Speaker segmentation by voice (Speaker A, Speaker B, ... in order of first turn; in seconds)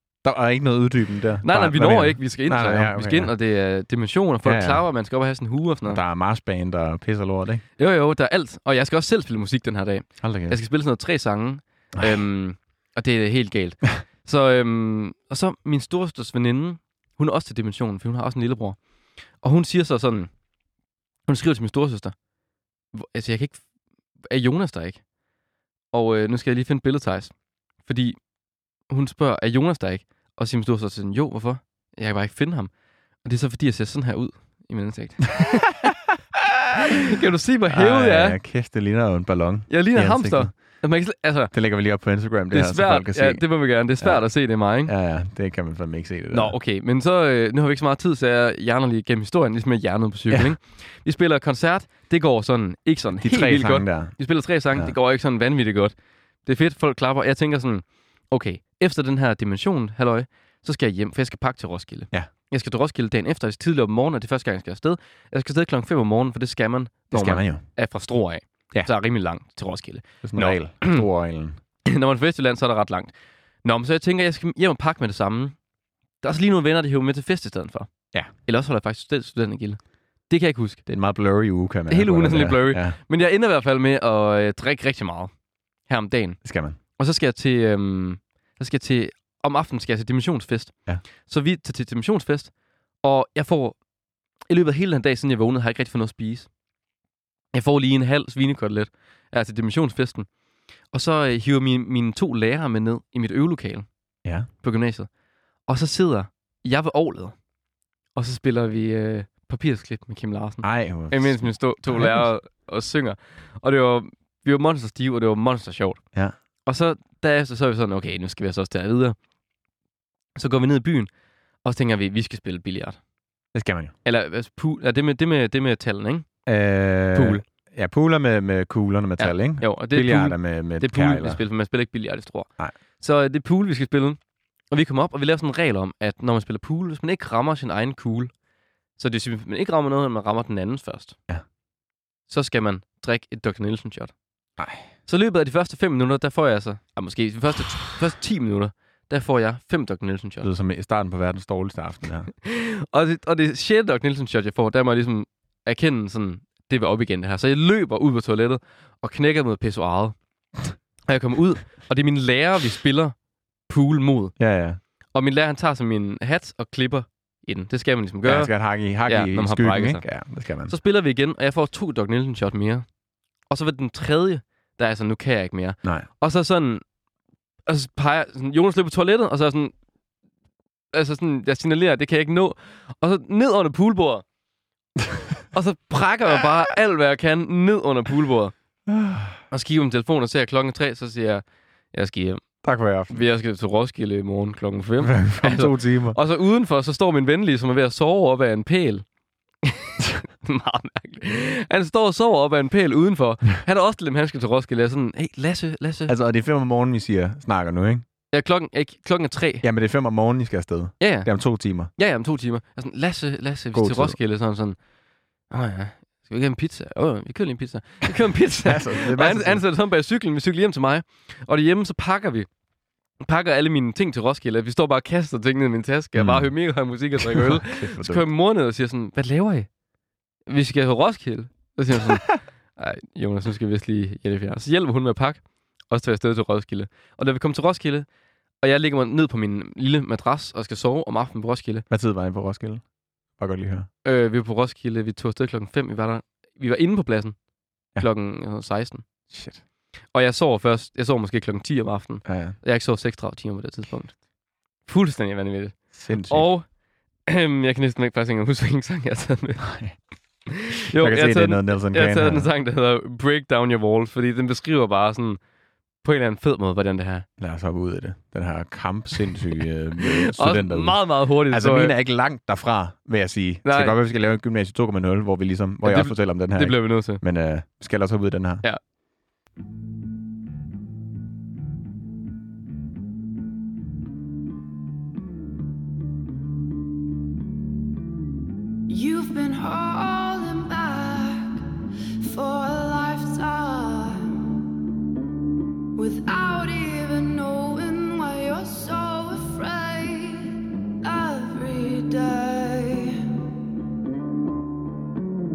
Speaker A: 0.2-3.3, 4.4-4.8, 5.8-7.6, 10.2-10.6, 37.7-40.5, 41.5-43.4, 44.8-46.5, 53.2-54.1, 67.1-67.6, 70.2-71.6, 80.9-83.0, 86.4-86.8, 110.6-112.2, 123.5-123.9, 126.5-131.4, 144.6-144.8, 150.4-152.3, 164.4-164.8, 168.2-170.7, 188.9-189.4, 192.6-193.2, 195.0-196.2, 206.1-208.1, 209.6-211.9, 213.7-214.2, 218.6-219.6, 226.2-226.5, 227.2-228.2, 241.9-242.8, 243.4-243.9, 249.3-249.6, 252.2-252.6, 255.9-256.5, 259.6-259.9, 260.9-262.5, 267.4-278.6
Speaker B: 1.4-6.0, 7.8-18.8, 19.4-20.3, 21.3-22.1, 22.9-23.6, 24.2-25.0, 25.9-27.3, 27.9-28.2, 28.9-32.7, 33.2-35.7, 36.8-38.4, 39.7-41.5, 42.5-44.9, 46.3-55.9, 56.5-71.0, 71.8-73.1, 73.6-75.5, 76.2-77.9, 78.4-80.8, 81.9-85.3, 85.9-86.4, 86.9-92.5, 93.0-93.8, 94.5-96.5, 97.5-100.3, 100.9-103.9, 104.6-105.1, 105.7-107.3, 108.1-116.0, 116.7-119.2, 120.3-121.1, 121.6-123.0, 124.0-126.3, 127.1-127.4, 129.2-134.2, 134.7-138.3, 139.0-141.2, 142.3-144.1, 145.1-150.5, 152.4-160.2, 161.1-163.1, 163.7-164.3, 165.1-168.5, 169.0-170.0, 170.7-172.8, 173.5-176.8, 177.7-179.7, 180.9-184.2, 185.5-188.5, 189.5-192.4, 193.1-199.0, 199.6-206.1, 208.3-209.6, 211.0-211.3, 211.9-214.8, 215.5-222.5, 223.2-229.7, 230.4-238.1, 238.6-241.8, 244.0-247.3, 248.0-249.0, 250.1-254.1, 254.8-256.6, 257.2-259.7, 260.5-265.4, 266.0-267.2, 270.0-271.9, 273.6-274.0, 275.8-277.2
Speaker C: 288.9-291.6, 292.2-294.3, 295.9-303.2